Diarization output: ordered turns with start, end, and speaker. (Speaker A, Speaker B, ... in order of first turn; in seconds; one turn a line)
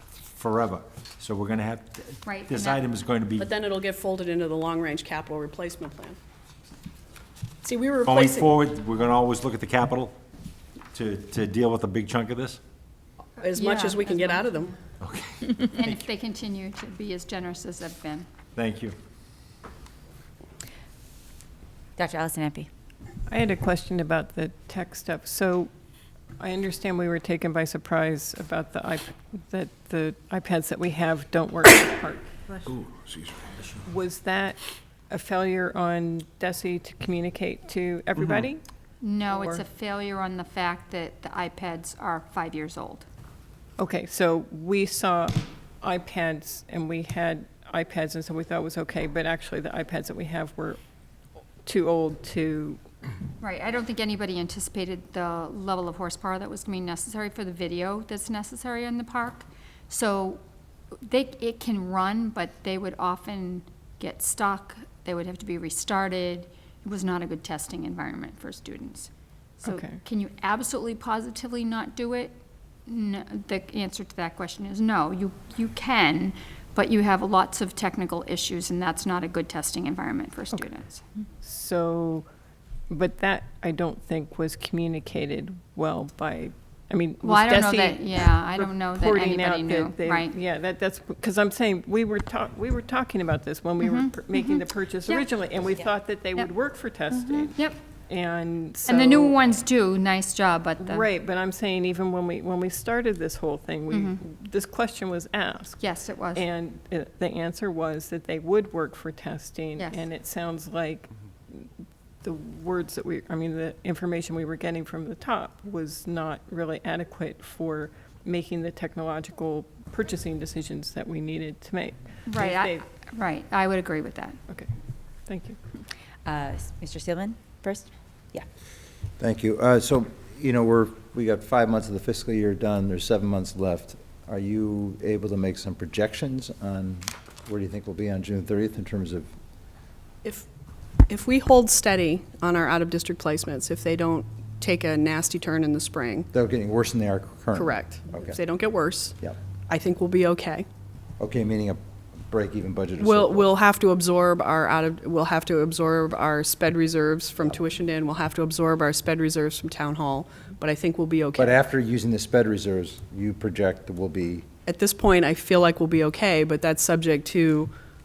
Speaker A: 0.3-3.5
Speaker B: 2.2-2.8
Speaker C: 3.4-6.2
Speaker C: 7.6-8.5
Speaker A: 8.1-10.1
Speaker A: 10.9-12.6
Speaker C: 13.4-14.7
Speaker B: 13.5-14.6
Speaker A: 15.0-15.9
Speaker B: 15.7-18.3
Speaker A: 18.6-18.9
Speaker D: 22.0-22.7
Speaker E: 23.3-25.7
Speaker E: 26.4-32.3
Speaker A: 32.6-33.8
Speaker E: 33.8-38.6
Speaker B: 39.0-43.1
Speaker E: 39.3-39.6
Speaker E: 43.8-50.8
Speaker E: 51.6-52.8
Speaker B: 53.4-60.4
Speaker B: 61.0-69.1
Speaker E: 69.6-70.0
Speaker B: 69.6-81.0
Speaker E: 81.4-82.3
Speaker E: 82.9-99.4
Speaker B: 87.2-90.3
Speaker B: 93.8-95.3
Speaker B: 97.2-97.8
Speaker B: 98.8-101.0
Speaker E: 100.8-111.7
Speaker B: 103.9-104.2
Speaker B: 105.8-106.5
Speaker E: 112.2-122.8
Speaker B: 122.3-124.4
Speaker E: 125.3-125.6
Speaker D: 126.2-128.4
Speaker F: 129.2-139.3
Speaker C: 141.1-146.3
Speaker F: 146.3-148.4
Speaker C: 147.5-150.7
Speaker F: 151.2-153.5
Speaker C: 153.0-161.6
Speaker F: 161.4-164.4
Speaker C: 164.7-167.7